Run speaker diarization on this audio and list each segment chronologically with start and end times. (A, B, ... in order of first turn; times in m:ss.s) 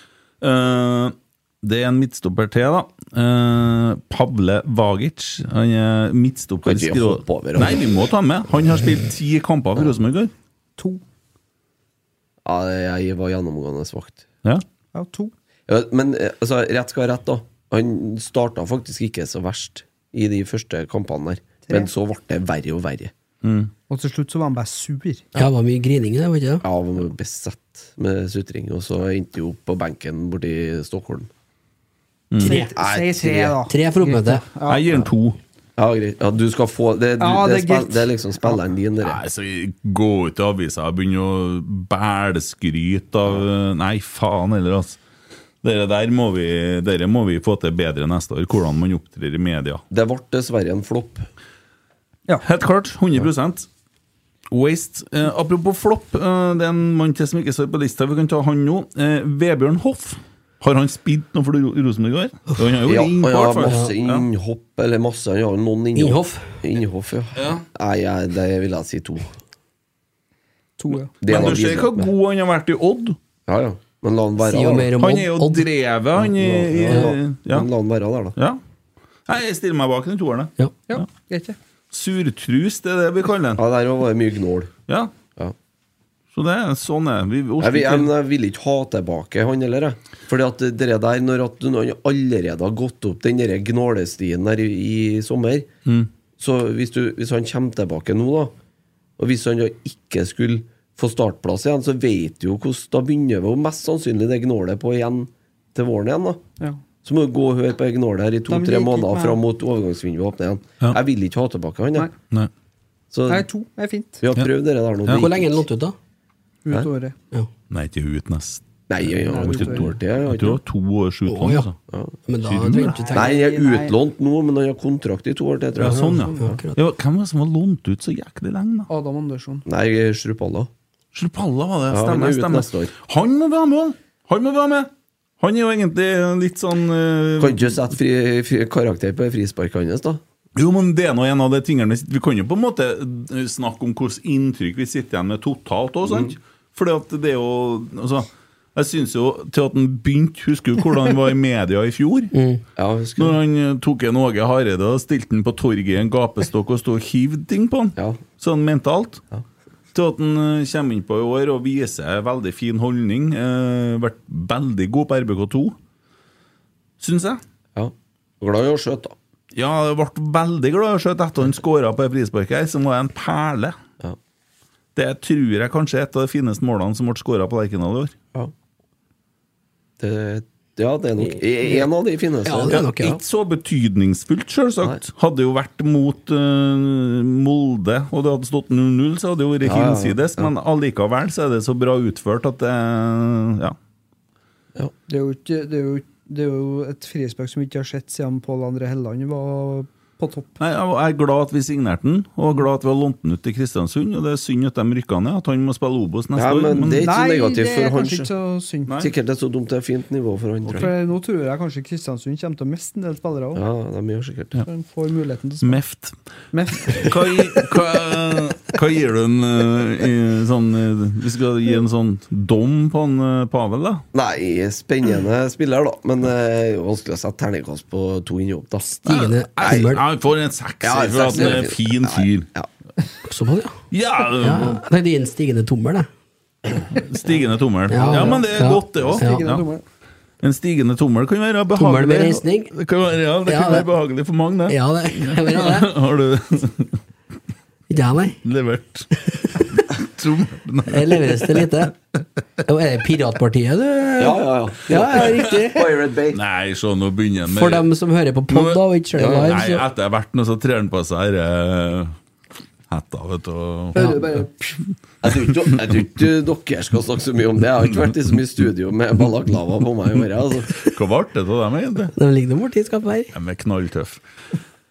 0:00.4-0:10.3 A
0:06.6-0:07.8 B
0:12.4-0:14.2 B
0:15.0-0:15.3 C
0:15.7-0:23.1 B
0:23.4-0:23.7 A
0:23.9-0:25.3 C
0:25.4-0:26.6 D
0:26.6-0:31.3 B
0:32.3-0:32.6 A
0:32.4-0:32.7 D
0:32.4-0:34.8 C
0:32.7-0:33.6 B
0:33.7-0:34.4 D
0:34.7-0:35.4 A
0:35.8-0:39.2 B
0:37.2-0:38.6 C
0:39.0-0:45.0 A
0:45.6-0:49.8 A
0:49.9-0:51.3 B
0:52.4-0:53.7 A
0:54.5-1:04.2 A
1:02.8-1:09.3 B
1:03.7-1:03.9 D
1:06.0-1:06.5 D
1:07.4-1:07.6 A
1:10.8-1:11.1 C
1:11.2-1:12.1 B
1:11.2-1:13.2 A
1:13.5-1:14.9 B
1:14.4-1:15.6 D
1:15.0-1:17.7 A
1:16.2-1:18.4 B
1:19.3-1:21.1 A
1:20.9-1:21.6 C
1:21.9-1:23.6 A
1:23.6-1:24.7 B
1:26.3-1:28.1 A
1:27.6-1:35.7 B
1:36.4-1:38.6 B
1:39.2-1:46.4 B
1:47.0-1:52.1 B
1:48.5-1:49.4 C
1:53.1-1:53.5 B
1:53.3-1:54.2 C
1:54.2-1:55.6 B
1:55.1-1:56.0 D
1:56.6-1:57.2 C
1:57.7-2:01.8 A
1:58.9-2:00.6 B
1:59.3-1:59.9 C
2:01.3-2:01.7 D
2:01.9-2:02.2 B
2:02.3-2:03.4 D
2:02.4-2:03.0 A
2:02.9-2:03.9 C
2:03.1-2:06.4 B
2:05.8-2:08.9 A
2:06.2-2:06.4 C
2:06.3-2:06.8 D
2:08.9-2:09.6 C
2:09.7-2:10.7 B
2:11.1-2:17.8 A
2:11.9-2:12.9 B
2:17.4-2:20.2 B
2:20.6-2:32.3 A
2:26.0-2:26.4 B
2:32.3-2:32.6 D
2:32.8-2:33.4 B
2:33.2-2:39.2 A
2:38.0-2:38.2 B
2:39.9-2:45.8 A
2:47.0-2:47.4 A
2:47.8-2:49.2 B
2:49.6-2:53.8 A
2:55.0-2:58.1 A
3:00.0-3:03.2 B
3:02.4-3:03.2 D
3:02.7-3:13.8 A
3:09.6-3:10.5 B
3:15.1-3:20.5 C
3:20.6-3:27.1 A
3:26.4-3:28.3 B
3:27.0-3:29.0 C
3:29.0-3:30.9 B
3:30.7-3:33.6 C
3:33.5-3:34.6 B
3:34.6-3:35.8 C
3:35.6-3:36.2 A
3:36.5-3:37.4 C
3:36.9-3:44.0 A
3:44.1-3:49.0 B
3:49.0-3:50.0 D
3:49.0-3:52.5 A
3:50.8-3:52.7 B
3:53.2-3:53.8 D
3:53.9-3:54.8 A
3:54.4-3:56.1 D
3:56.9-3:59.7 A
3:57.9-3:59.4 D
3:58.1-3:58.4 C
3:59.0-3:59.8 C
4:00.4-4:07.0 A
4:01.8-4:02.7 D
4:03.5-4:03.9 D
4:04.7-4:05.9 D
4:07.9-4:08.4 D
4:08.4-4:11.7 A
4:10.9-4:11.9 D
4:12.6-4:15.9 D
4:14.2-4:16.4 B
4:16.3-4:17.9 A
4:17.5-4:19.8 D
4:18.5-4:22.2 A
4:19.1-4:19.6 B
4:22.9-4:24.4 A
4:23.9-4:24.8 C
4:25.2-4:30.8 B
4:30.8-4:32.1 A
4:32.2-4:33.3 D
4:33.3-4:34.2 A